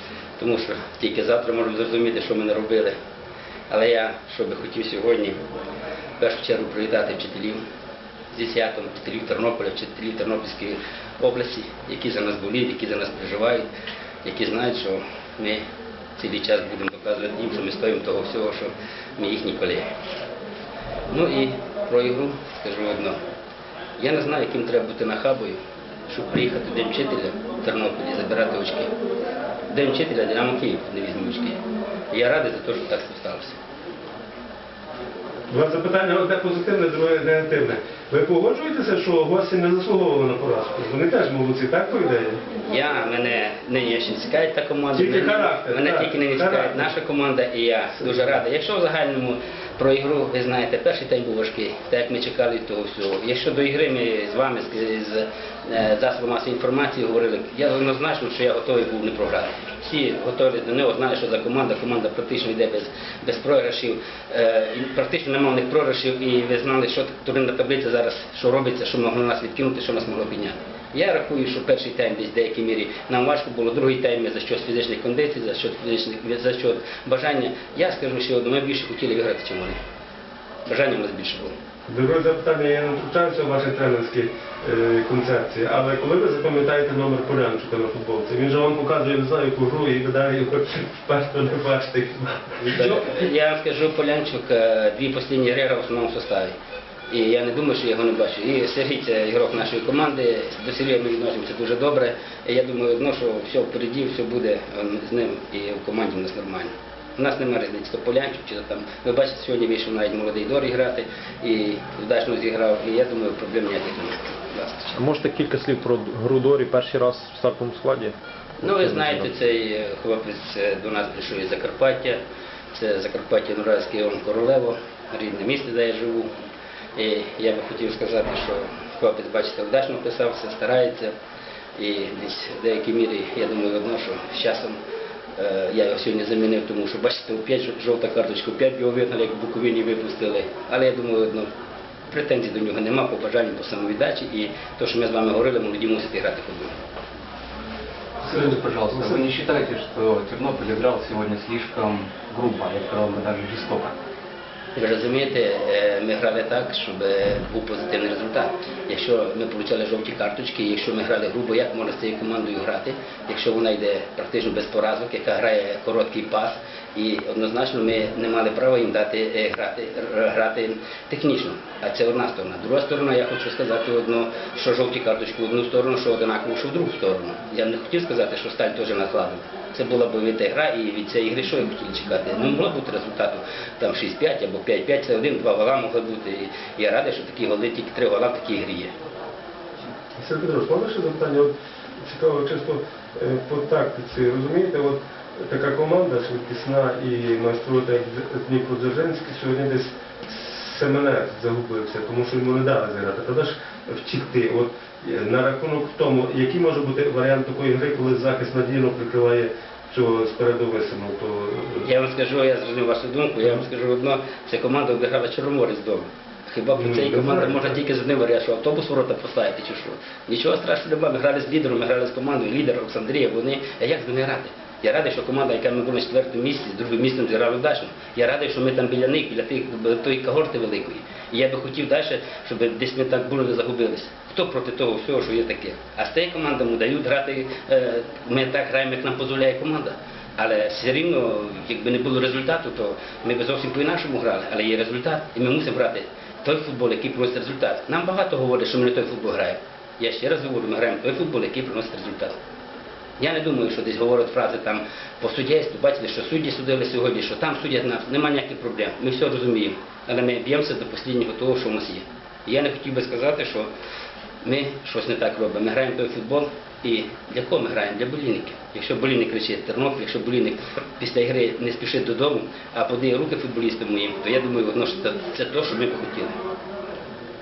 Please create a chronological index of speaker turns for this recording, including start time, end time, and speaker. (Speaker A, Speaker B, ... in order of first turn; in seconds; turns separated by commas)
Speaker A: 0.4-2.9, Speaker A: 3.7-5.4, Speaker A: 6.2-7.6, Speaker A: 8.3-13.7, Speaker A: 14.2-15.6, Speaker A: 16.2-19.9, Speaker A: 21.1-23.2, Speaker A: 24.0-28.9, Speaker A: 29.7-31.6, Speaker A: 32.1-33.6, Speaker B: 35.5-42.4, Speaker A: 42.6-79.8, Speaker B: 44.9-46.9, Speaker A: 80.7-81.5, Speaker B: 81.9-93.0, Speaker A: 92.7-96.5, Speaker A: 97.1-115.0, Speaker C: 115.0-119.3, Speaker A: 118.6-122.2, Speaker A: 122.7-126.3, Speaker A: 127.0-131.1, Speaker A: 131.8-134.8, Speaker A: 135.3-141.5, Speaker A: 142.1-146.7, Speaker D: 148.2-153.9, Speaker A: 154.7-188.9, Speaker B: 190.2-211.9, Speaker A: 211.8-252.3, Speaker B: 216.7-217.8, Speaker A: 253.2-263.7, Speaker A: 264.4-276.4